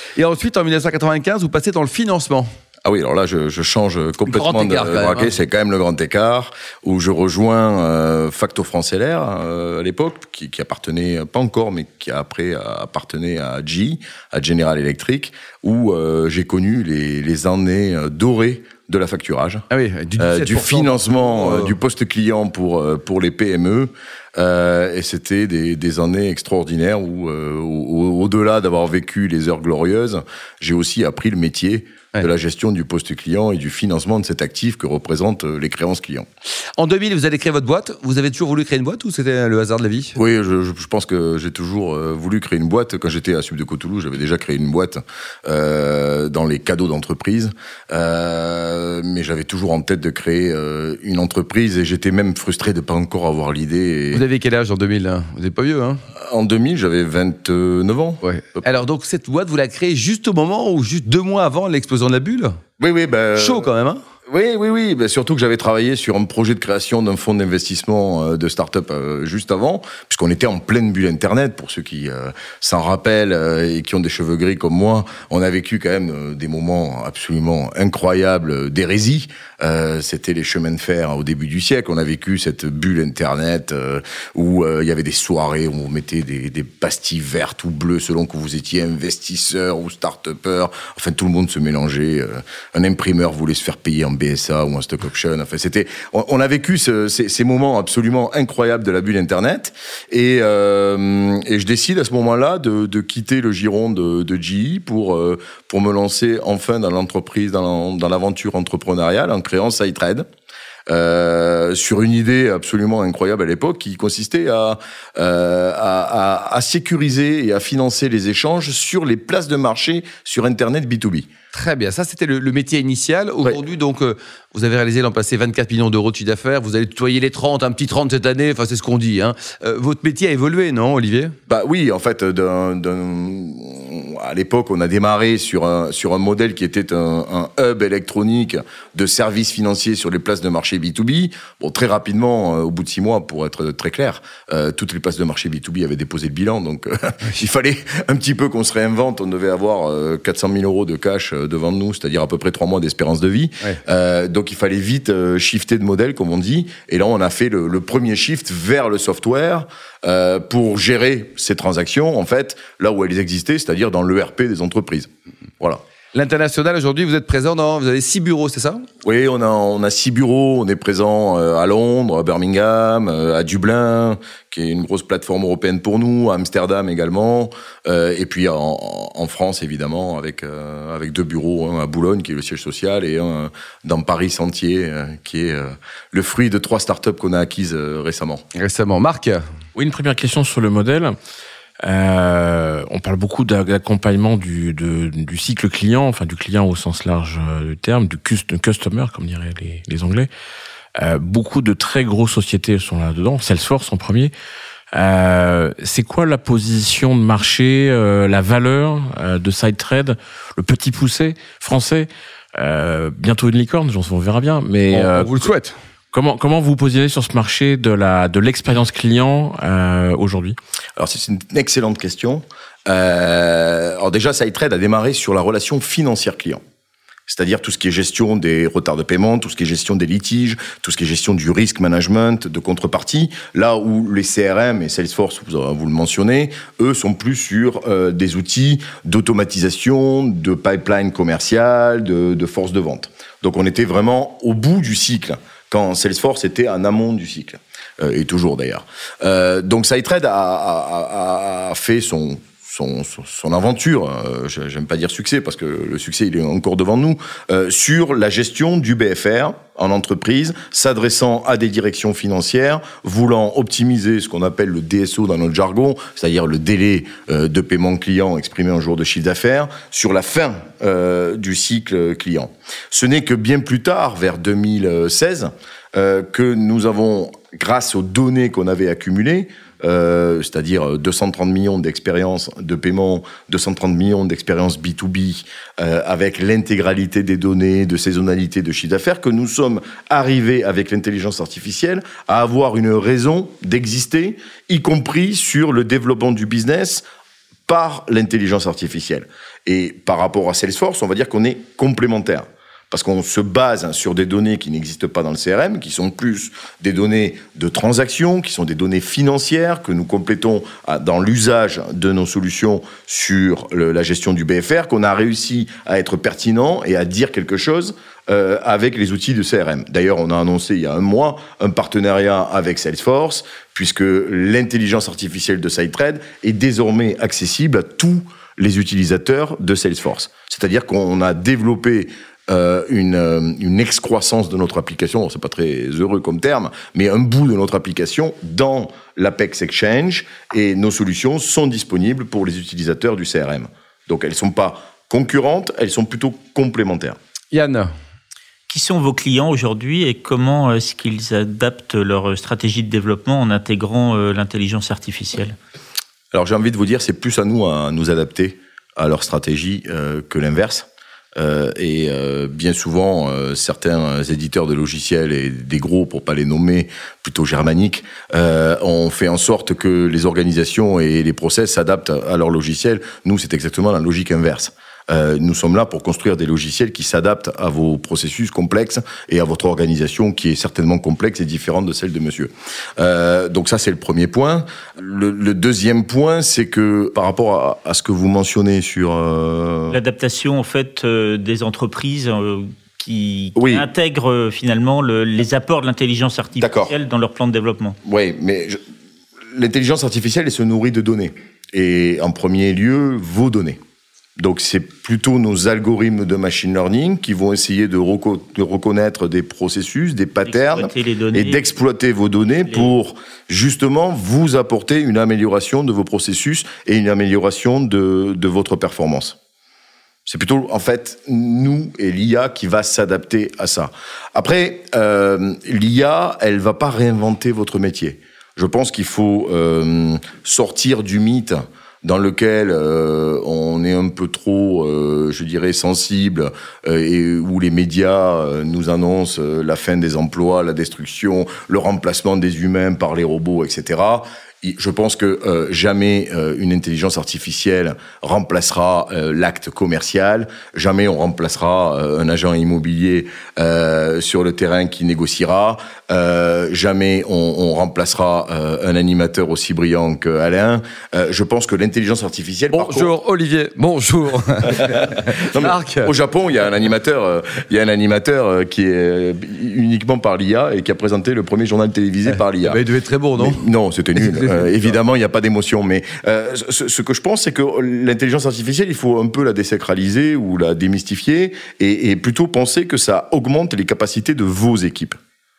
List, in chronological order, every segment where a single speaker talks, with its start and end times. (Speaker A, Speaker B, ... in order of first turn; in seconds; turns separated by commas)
Speaker A: 0.1-2.5, Speaker B: 2.8-19.6, Speaker A: 4.3-5.4, Speaker A: 19.7-21.8, Speaker B: 20.2-36.2, Speaker A: 36.8-40.2, Speaker B: 40.1-54.2, Speaker A: 54.1-56.0, Speaker B: 56.1-58.2, Speaker A: 58.2-62.6, Speaker B: 62.8-63.7, Speaker A: 63.3-64.0, Speaker B: 64.3-110.2, Speaker B: 110.9-121.3, Speaker A: 121.5-131.3, Speaker B: 131.5-165.8, Speaker A: 166.1-168.8, Speaker B: 169.0-188.4, Speaker A: 188.5-189.4, Speaker C: 189.7-191.1, Speaker C: 191.8-200.3, Speaker C: 200.9-204.3, Speaker C: 204.9-215.3, Speaker A: 214.9-215.7, Speaker C: 216.1-220.6, Speaker B: 221.0-226.6, Speaker B: 227.3-297.0, Speaker B: 297.7-347.2, Speaker A: 347.5-347.9, Speaker D: 348.7-355.6, Speaker B: 356.3-390.0, Speaker D: 389.9-397.9, Speaker B: 393.5-393.9, Speaker B: 396.6-396.9, Speaker B: 398.0-398.8, Speaker B: 399.5-403.8, Speaker B: 404.4-419.4, Speaker D: 410.4-411.6, Speaker D: 412.6-412.9, Speaker B: 420.2-463.1, Speaker A: 462.7-466.1, Speaker B: 465.5-472.8, Speaker A: 472.4-473.6, Speaker B: 473.4-485.2, Speaker A: 474.1-474.9